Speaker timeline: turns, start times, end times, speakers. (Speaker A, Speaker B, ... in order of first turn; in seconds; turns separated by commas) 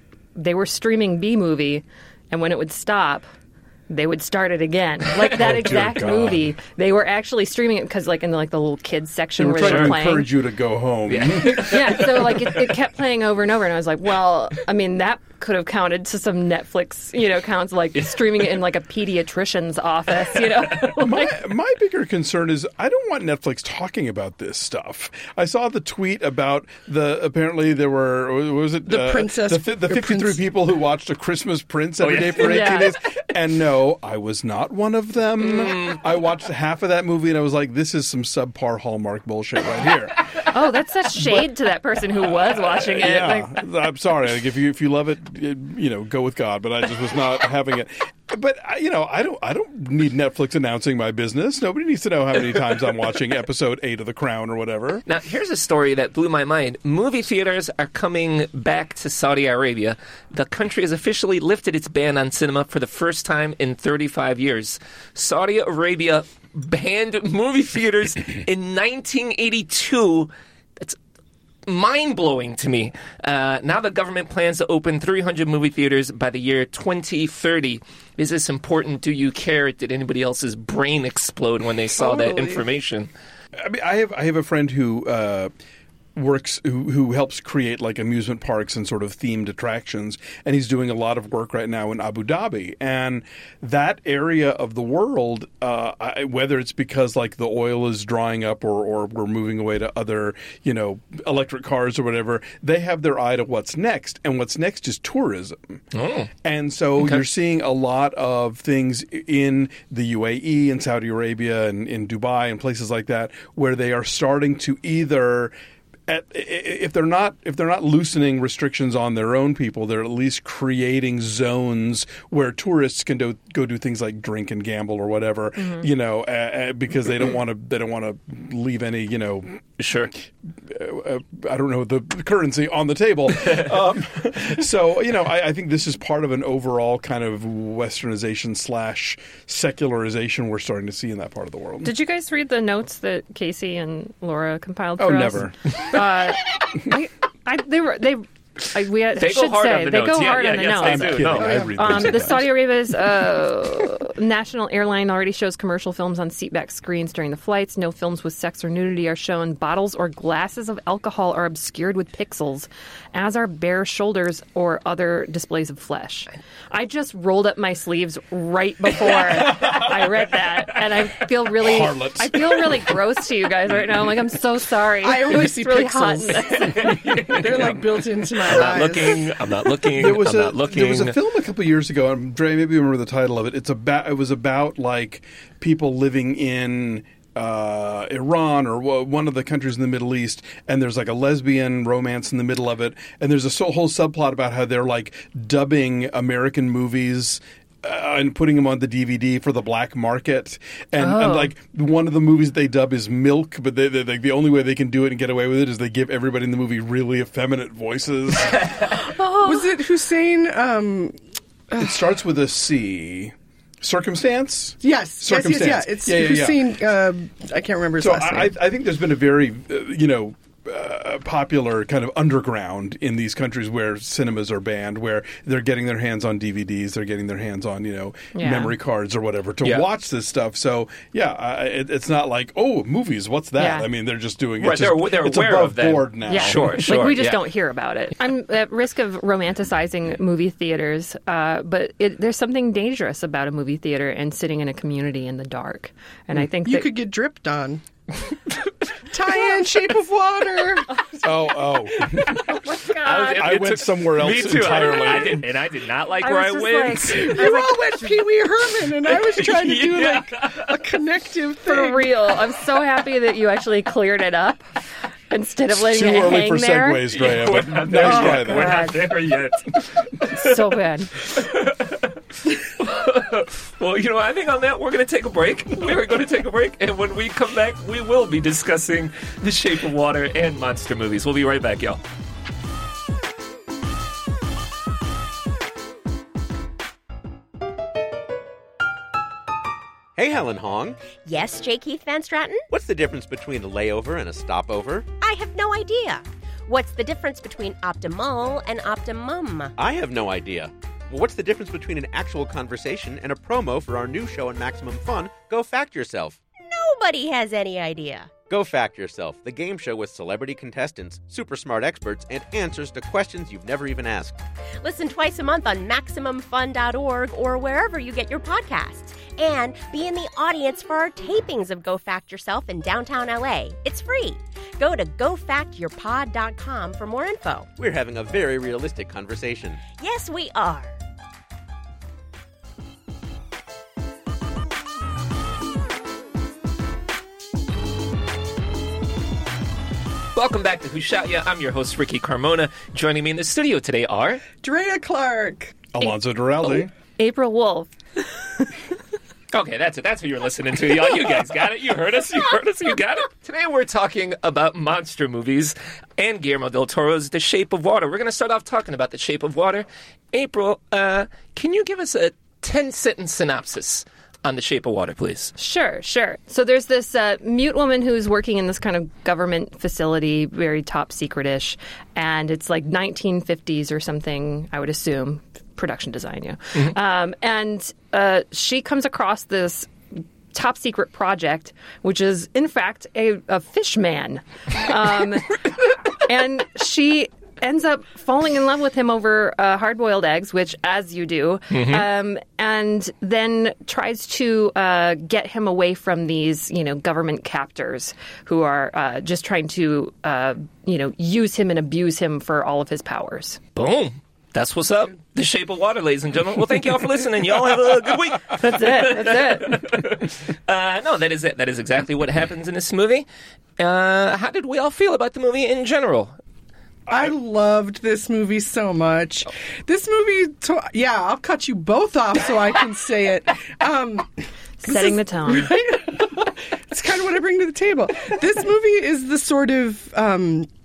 Speaker A: 0.3-3.2, Speaker A: 3.9-10.3, Speaker B: 5.3-6.5, Speaker B: 9.4-12.4, Speaker C: 9.6-10.0, Speaker C: 11.1-11.8, Speaker A: 11.5-21.4, Speaker C: 17.9-18.4, Speaker B: 20.9-40.2, Speaker D: 28.9-30.4, Speaker C: 32.0-32.8, Speaker A: 32.4-32.9, Speaker C: 35.4-36.1, Speaker A: 40.5-43.6, Speaker B: 42.9-55.0, Speaker C: 55.0-71.0, Speaker C: 71.7-83.1, Speaker D: 81.9-82.6, Speaker B: 83.6-85.5, Speaker B: 86.2-105.8, Speaker C: 105.9-106.3, Speaker B: 106.4-115.5, Speaker C: 107.0-107.3, Speaker B: 116.1-129.8, Speaker A: 125.6-125.8, Speaker C: 129.8-130.1, Speaker B: 130.5-141.9, Speaker A: 141.8-177.1, Speaker B: 145.0-145.6, Speaker C: 149.2-152.2, Speaker B: 150.7-152.5, Speaker B: 169.1-170.1, Speaker B: 171.5-173.0, Speaker D: 175.0-179.3, Speaker C: 176.7-181.1, Speaker B: 180.0-208.7, Speaker A: 201.0-201.5, Speaker A: 208.9-209.7, Speaker D: 209.4-211.2, Speaker D: 211.7-212.0, Speaker B: 211.8-216.6, Speaker D: 214.8-218.5, Speaker B: 218.0-236.8, Speaker A: 228.3-228.7, Speaker A: 233.6-233.9, Speaker C: 234.6-237.4, Speaker A: 236.3-246.9, Speaker D: 246.6-247.8, Speaker D: 249.1-251.0, Speaker B: 251.2-255.5, Speaker A: 252.2-253.5, Speaker C: 253.0-257.3, Speaker A: 256.2-258.2, Speaker D: 257.2-262.1, Speaker C: 259.1-260.8, Speaker A: 261.6-264.6, Speaker A: 265.3-267.1, Speaker B: 265.7-268.9, Speaker C: 267.2-270.5, Speaker A: 268.0-269.0, Speaker A: 270.3-271.1, Speaker C: 271.2-282.0, Speaker E: 290.1-291.0, Speaker F: 291.2-292.6, Speaker E: 292.7-295.1, Speaker F: 295.2-299.7, Speaker E: 299.8-306.4, Speaker F: 306.6-308.3, Speaker E: 308.4-314.4, Speaker F: 314.8-327.7, Speaker E: 327.8-329.8, Speaker F: 330.0-330.9, Speaker C: 340.3-344.4, Speaker D: 344.6-345.8, Speaker B: 345.9-346.9, Speaker A: 346.6-348.7, Speaker C: 349.5-365.5, Speaker A: 365.6-379.9, Speaker A: 380.5-385.6, Speaker A: 386.2-403.6, Speaker C: 391.7-392.0, Speaker C: 403.7-413.2, Speaker A: 408.5-409.8, Speaker C: 413.8-416.3, Speaker D: 417.1-430.7, Speaker A: 424.8-425.7